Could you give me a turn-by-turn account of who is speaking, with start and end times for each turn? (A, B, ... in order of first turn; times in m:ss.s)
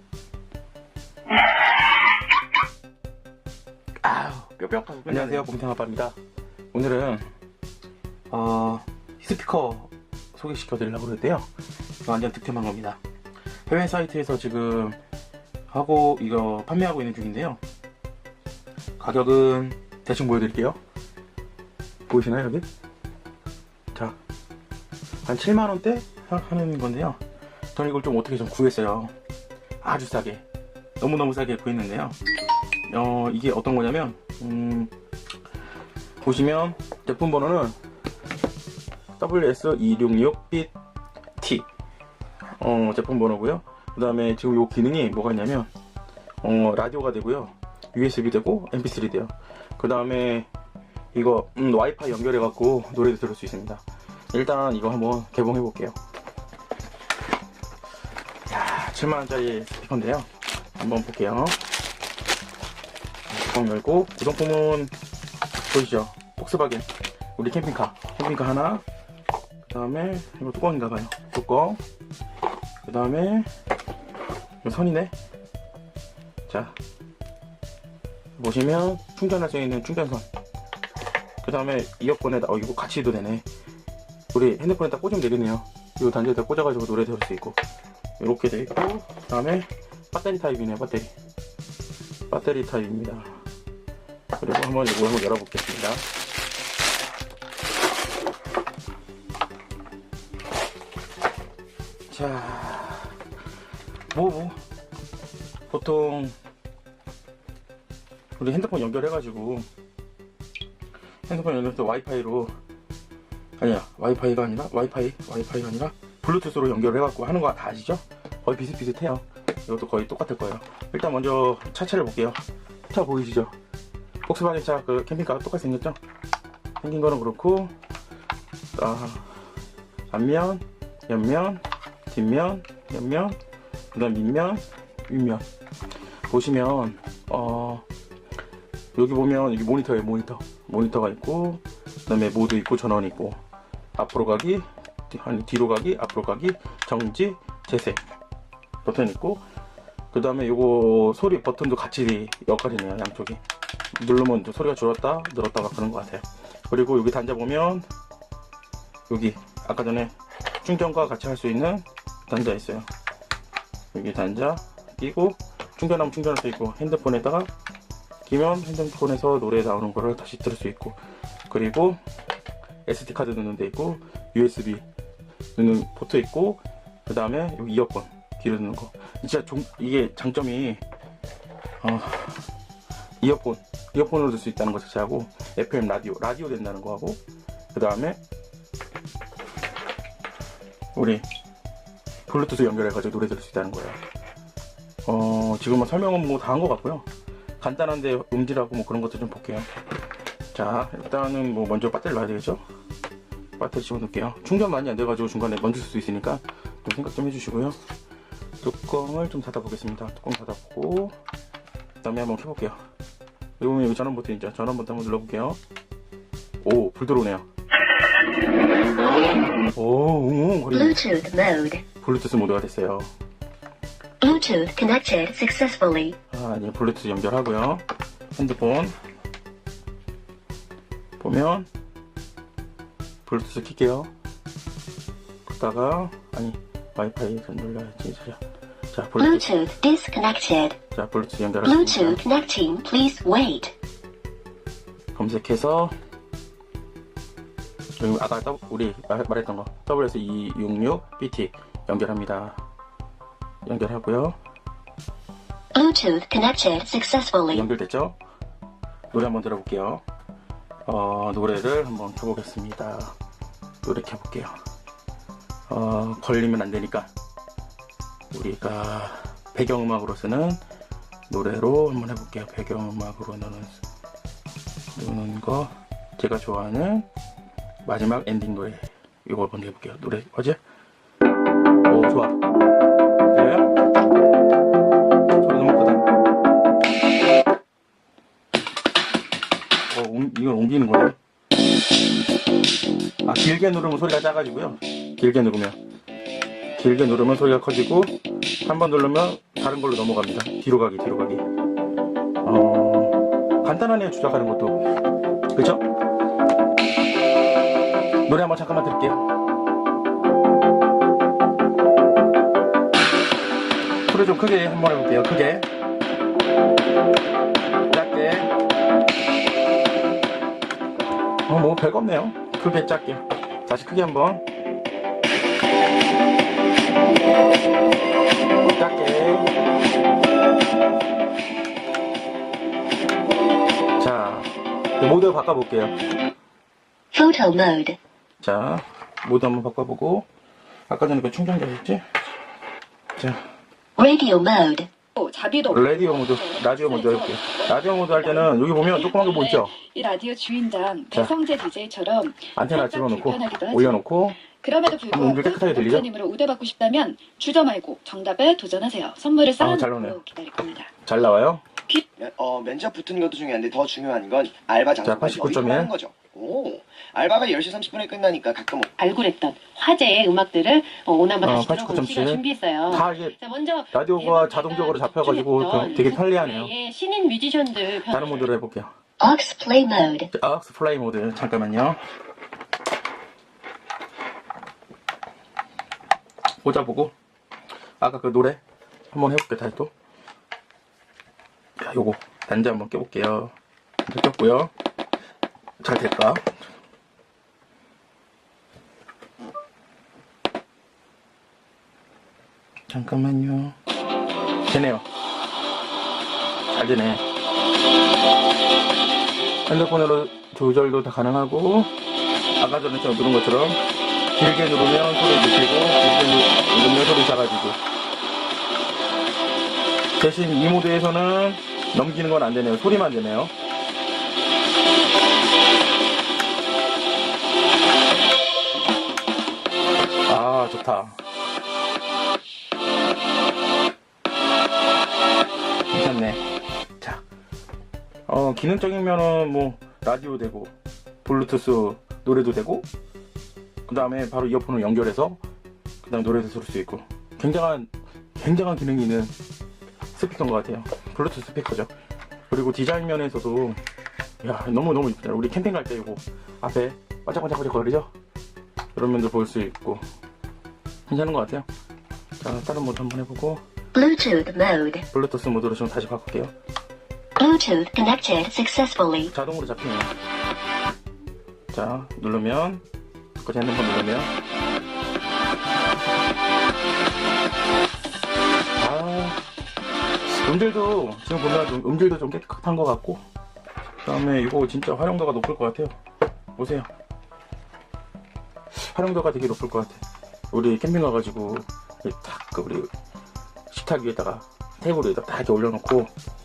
0:04.0-0:05.4 A
0:04.1-0:04.4 B
0:05.0-0:06.2 B
0:06.7-0:07.3 B
0:08.3-0:11.5 B
0:12.0-0:13.0 B
0:13.7-0:15.0 B
0:15.7-0:17.6 B
0:19.0-0:20.8 B
0:22.1-0:22.6 B
0:25.3-0:27.2 B
0:27.8-0:29.1 B
0:29.8-0:30.4 B
0:31.0-0:32.2 B
0:32.9-0:34.9 B
0:36.2-0:37.8 B
0:39.2-0:40.7 B
0:41.4-0:41.7 B
0:42.6-0:45.7 B
0:46.4-0:50.5 B
0:51.1-0:56.0 B
0:58.5-1:01.6 B
1:03.3-1:04.9 B
1:05.7-1:08.8 B
1:09.6-1:11.8 B
1:12.8-1:13.5 B
1:14.6-1:15.1 B
1:16.5-1:16.8 B
1:18.4-1:20.2 B
1:21.4-1:23.5 B
1:24.3-1:27.6 B
1:28.2-1:31.1 B
1:32.3-1:33.3 B
1:34.4-1:36.0 B
1:42.1-1:43.2 B
1:44.1-1:44.6 B
1:45.7-1:46.4 B
1:48.4-1:49.7 B
1:51.3-1:52.5 B
1:53.6-2:03.5 B
2:04.2-2:06.0 B
2:06.8-2:07.7 B
2:08.8-2:09.3 B
2:10.1-2:13.4 B
2:13.9-2:15.4 B
2:16.3-2:17.9 B
2:19.0-2:23.4 B
2:24.0-2:28.0 B
2:28.8-2:29.4 B
2:30.1-2:33.4 B
2:34.0-2:37.9 B
2:39.1-2:42.9 B
2:43.9-2:47.5 B
2:48.2-2:51.0 B
2:51.5-2:52.0 B
2:52.9-2:54.8 B
2:55.6-3:00.8 B
3:01.8-3:02.4 B
3:03.2-3:07.2 B
3:07.7-3:08.2 B
3:11.0-3:11.2 B
3:12.3-3:14.0 B
3:15.0-3:17.1 B
3:17.6-3:19.7 B
3:20.5-3:22.6 B
3:23.6-3:27.8 B
3:28.6-3:31.2 B
3:32.0-3:32.8 B
3:33.6-3:35.6 B
3:36.6-3:37.4 B
3:39.7-3:41.0 B
3:40.7-3:41.8 C
3:42.0-3:43.1 B
3:44.2-3:46.2 C
3:46.3-3:48.9 B
3:51.2-3:51.7 B
3:53.3-3:54.1 B
3:55.5-3:58.4 B
3:58.9-3:59.5 B
3:59.2-4:00.8 C
4:00.9-4:02.2 B
4:01.6-4:03.8 C
4:05.2-4:06.0 B
4:08.0-4:12.6 B
4:13.6-4:14.4 B
4:15.8-4:17.7 C
4:17.5-4:18.2 B
4:19.1-4:20.0 B
4:20.9-4:23.2 B
4:23.8-4:24.6 B
4:25.7-4:27.1 B
4:28.3-4:30.6 B
4:31.3-4:33.8 B
4:35.0-4:37.1 B
4:37.8-4:40.6 B
4:41.8-4:42.4 B
4:43.3-4:43.7 B
4:45.3-4:46.1 B
4:49.9-4:51.2 B
4:53.2-4:55.8 B
4:56.8-4:58.1 B
4:58.6-5:01.4 B
5:02.4-5:04.8 B
5:05.5-5:05.8 B
5:08.2-5:09.2 B
5:14.1-5:15.7 B
5:17.9-5:18.5 B
5:21.5-5:24.4 B
5:28.6-5:29.5 B
5:34.0-5:36.0 B
5:37.1-5:38.0 C
5:38.4-5:40.3 B
5:40.9-5:42.0 B
5:43.2-5:43.4 B
5:44.0-5:44.9 C
5:45.2-6:00.9 D
5:45.7-5:49.8 B
5:52.6-5:54.4 B
5:55.1-5:56.1 B
5:59.6-6:00.2 B
6:01.0-6:01.6 B
6:02.2-6:09.0 A
6:05.0-6:05.9 B
6:09.0-6:18.5 E
6:11.4-6:13.4 B
6:13.9-6:16.7 B
6:18.0-6:18.9 B
6:19.2-6:20.3 C
6:20.3-6:22.0 B
6:26.6-6:27.1 B
6:28.0-6:28.6 B
6:29.1-6:29.9 B
6:31.8-6:33.5 B
6:34.1-6:34.7 B
6:35.8-6:36.6 B
6:42.9-6:43.8 B
6:44.7-6:45.0 B
6:46.7-6:47.2 B
6:49.7-6:51.9 B
6:52.6-6:53.8 B
6:54.3-6:57.8 B
7:00.2-7:03.5 B
7:10.3-7:11.2 B
7:15.9-7:16.5 B
7:18.3-7:20.7 B
7:21.2-7:22.9 B
7:23.9-7:25.4 B
7:26.0-7:29.3 B
7:30.1-7:31.9 B
7:32.5-7:33.8 B
7:34.4-7:38.1 B
7:39.0-7:40.0 B
7:41.1-7:41.7 B
7:42.4-7:43.6 B
7:44.0-7:45.0 C
7:45.1-7:46.5 B
7:47.4-7:49.3 C
7:49.3-7:50.1 B
7:51.7-7:52.8 B
7:53.4-7:54.3 B
7:58.8-7:59.4 B
8:00.3-8:03.2 B
8:04.0-8:06.0 B
8:06.6-8:06.9 B
8:08.7-8:12.9 B
8:13.7-8:16.1 B